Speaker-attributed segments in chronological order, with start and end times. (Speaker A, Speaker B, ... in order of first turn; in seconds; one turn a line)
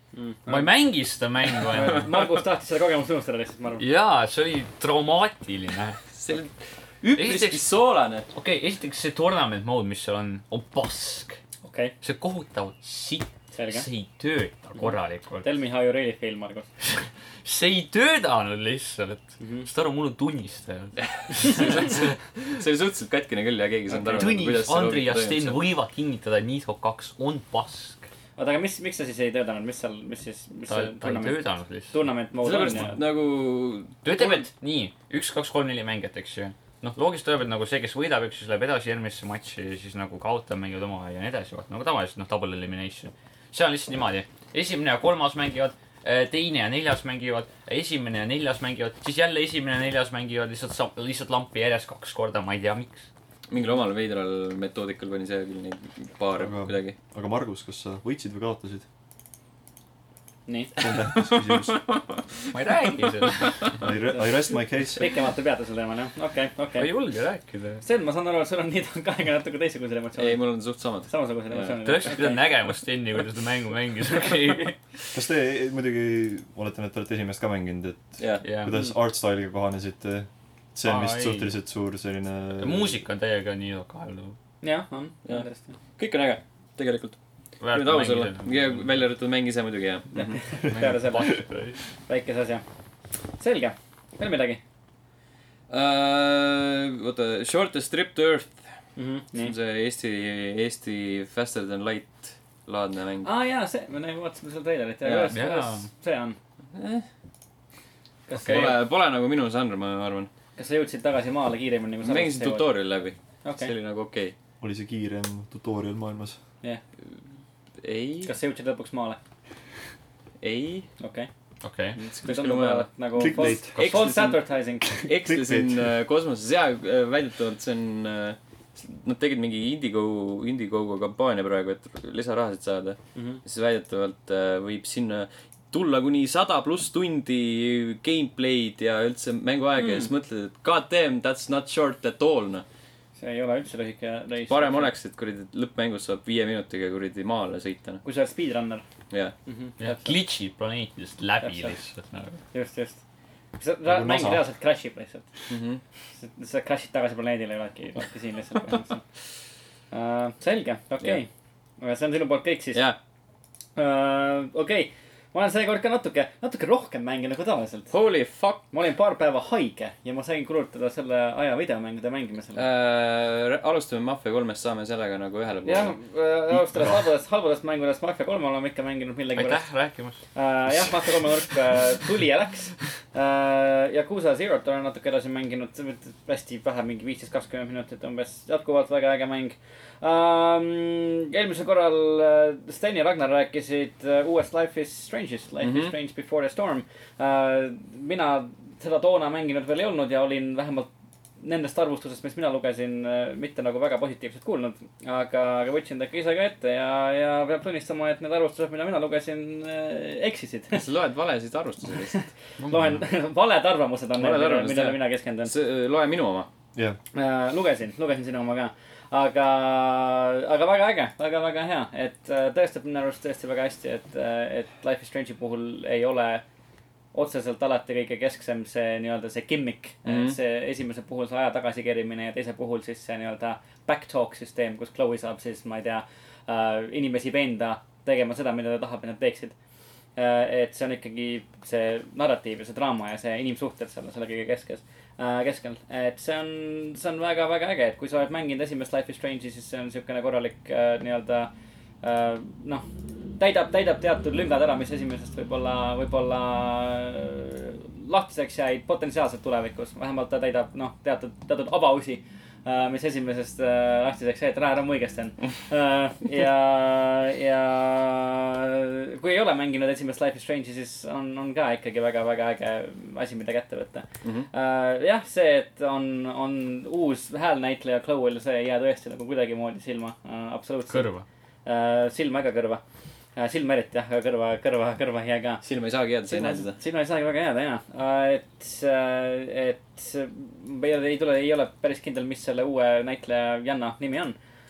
Speaker A: 0.1-0.7
Speaker B: 0.5-2.2
Speaker A: 1.7-3.8
Speaker B: 3.8-6.0
Speaker C: 6.1-8.3
Speaker B: 7.2-7.6
Speaker B: 8.3-11.4
Speaker A: 11.6-11.9
Speaker B: 12.0-15.4
Speaker A: 13.5-13.8
Speaker A: 15.4-16.7
Speaker B: 16.9-22.0
Speaker A: 19.4-19.7
Speaker C: 21.2-25.6
Speaker B: 24.1-28.1
Speaker A: 28.4-33.0
Speaker B: 30.7-31.9
Speaker C: 32.4-34.3
Speaker B: 34.0-53.1
Speaker C: 53.5-57.0
Speaker D: 56.4-58.8
Speaker A: 60.5-60.7
Speaker D: 60.8-61.8
Speaker C: 61.0-63.5
Speaker B: 62.5-63.8
Speaker D: 63.8-65.1
Speaker A: 64.9-66.9
Speaker B: 66.8-67.8
Speaker A: 67.8-70.4
Speaker C: 70.2-71.8
Speaker A: 71.1-72.5
Speaker B: 71.8-74.8
Speaker D: 75.1-82.9
Speaker C: 78.2-78.4
Speaker B: 78.4-78.8
Speaker B: 80.8-81.5
Speaker B: 82.6-84.4
Speaker A: 84.6-85.7
Speaker C: 86.0-87.2
Speaker B: 87.6-88.8
Speaker C: 87.7-90.4
Speaker A: 90.1-91.4
Speaker B: 90.7-91.8
Speaker A: 92.1-92.6
Speaker A: 93.4-94.6
Speaker C: 95.7-98.7
Speaker A: 99.0-99.5
Speaker C: 99.3-103.3
Speaker A: 103.2-106.4
Speaker C: 105.0-105.3
Speaker B: 105.3-105.9
Speaker C: 106.7-107.0
Speaker A: 108.3-108.8
Speaker C: 108.4-110.3
Speaker B: 108.5-108.7
Speaker A: 110.6-112.7
Speaker C: 112.0-114.3
Speaker A: 113.4-113.7
Speaker D: 114.6-116.4
Speaker C: 117.8-118.3
Speaker A: 118.2-119.2
Speaker C: 120.4-120.9
Speaker A: 121.0-121.3
Speaker B: 121.6-122.0
Speaker C: 122.0-124.4
Speaker A: 122.0-124.9
Speaker D: 123.2-123.8
Speaker B: 123.8-124.1
Speaker D: 124.8-125.9
Speaker C: 125.0-142.6
Speaker A: 133.1-133.4
Speaker A: 139.8-140.1
Speaker A: 143.2-144.9
Speaker C: 144.5-148.0
Speaker A: 148.0-148.8
Speaker C: 149.1-149.3
Speaker A: 149.4-150.2
Speaker B: 149.8-152.4
Speaker A: 151.4-151.8
Speaker A: 152.5-153.0
Speaker A: 153.6-155.3
Speaker D: 153.8-154.4
Speaker C: 155.5-155.8
Speaker A: 156.2-159.0
Speaker A: 159.9-161.3
Speaker A: 161.8-162.8
Speaker A: 163.8-167.9
Speaker C: 167.9-168.6
Speaker A: 168.7-172.6
Speaker C: 172.6-176.0
Speaker A: 175.6-179.6
Speaker B: 179.3-180.2
Speaker A: 180.3-200.9
Speaker C: 195.6-195.9
Speaker A: 201.4-210.8
Speaker C: 210.7-212.2
Speaker A: 212.1-215.5
Speaker B: 212.6-213.0
Speaker C: 214.2-216.5
Speaker A: 217.1-226.4
Speaker A: 227.1-239.5
Speaker C: 230.0-230.4
Speaker A: 240.2-251.5
Speaker A: 252.0-252.8
Speaker A: 253.4-281.1
Speaker C: 274.2-274.5
Speaker B: 280.9-281.2
Speaker A: 281.6-282.8
Speaker A: 283.4-285.6
Speaker C: 285.6-286.8
Speaker A: 286.3-294.4